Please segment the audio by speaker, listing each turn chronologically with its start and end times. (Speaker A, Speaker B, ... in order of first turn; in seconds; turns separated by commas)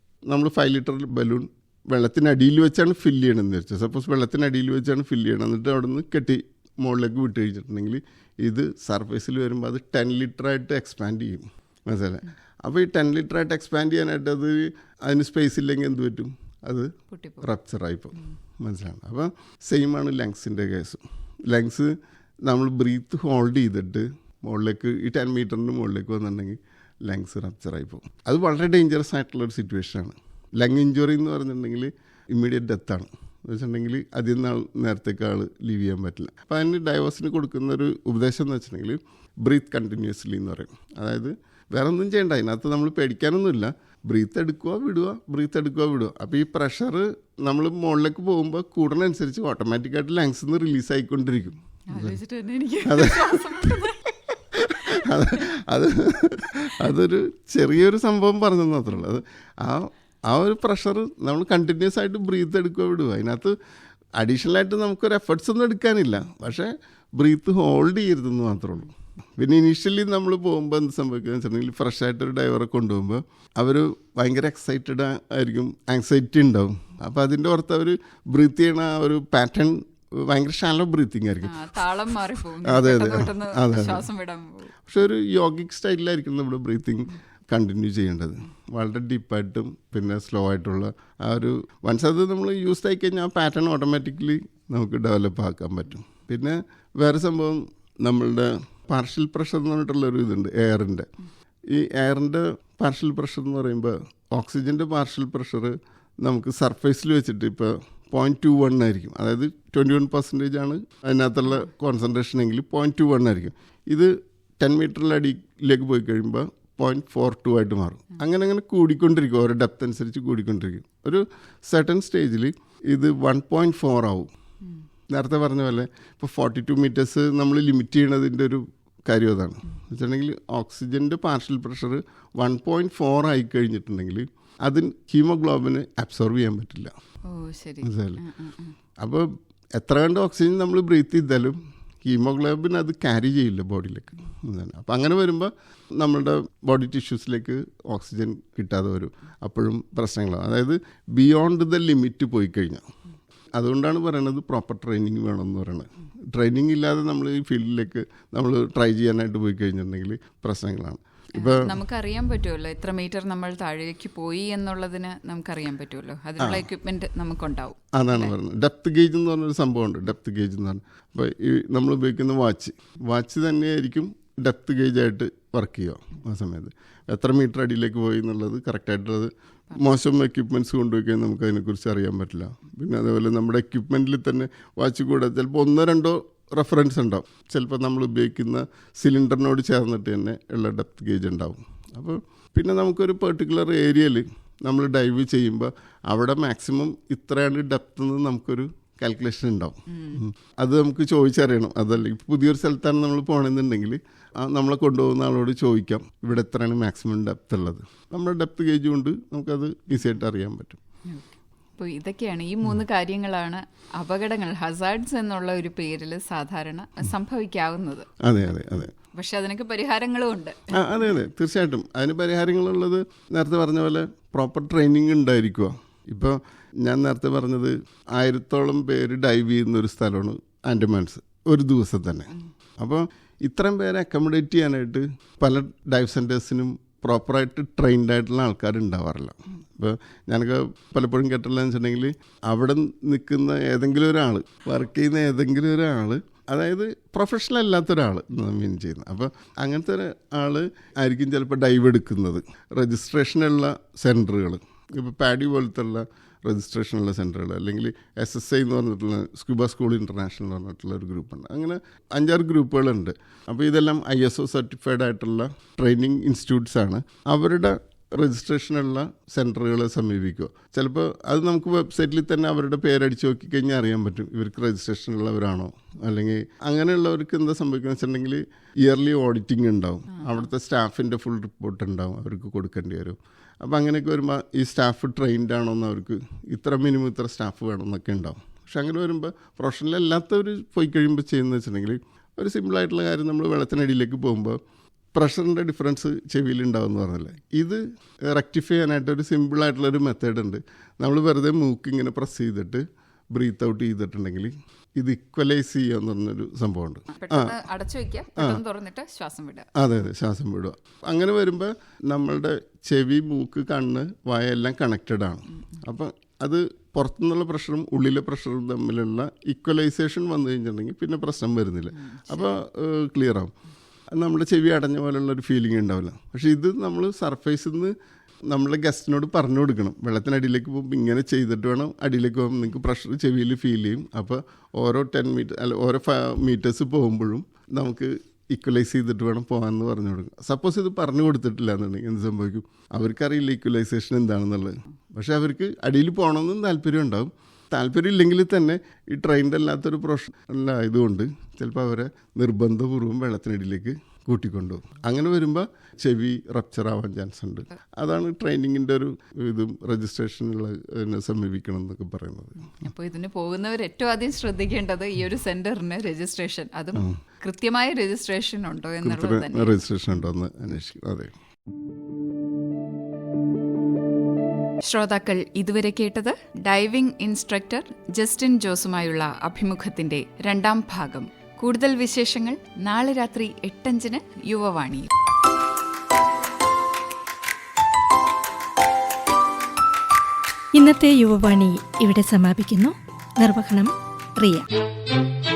Speaker A: 0.3-52.2, Speaker B: 17.1-17.5, Speaker B: 51.9-55.5, Speaker A: 52.8-53.9, Speaker A: 54.5-63.5, Speaker A: 64.2-81.8, Speaker B: 81.4-84.7, Speaker A: 82.6-84.1, Speaker A: 84.9-101.1, Speaker A: 101.7-124.3, Speaker A: 125.1-136.9, Speaker B: 137.2-138.8, Speaker A: 137.8-138.2, Speaker A: 139.0-152.9, Speaker A: 153.6-161.8, Speaker B: 161.4-168.3, Speaker A: 166.4-166.7, Speaker A: 167.9-210.8, Speaker B: 199.9-200.2, Speaker B: 211.8-218.1, Speaker A: 218.2-218.9, Speaker B: 218.9-221.1, Speaker A: 220.7-294.6, Speaker A: 295.1-307.6, Speaker B: 307.1-309.7, Speaker A: 308.4-308.6, Speaker A: 309.7-323.5, Speaker B: 321.9-322.6, Speaker A: 324.1-327.9, Speaker A: 328.5-362.8, Speaker B: 362.6-369.8, Speaker A: 369.0-371.3, Speaker B: 374.8-385.1, Speaker C: 390.7-394.7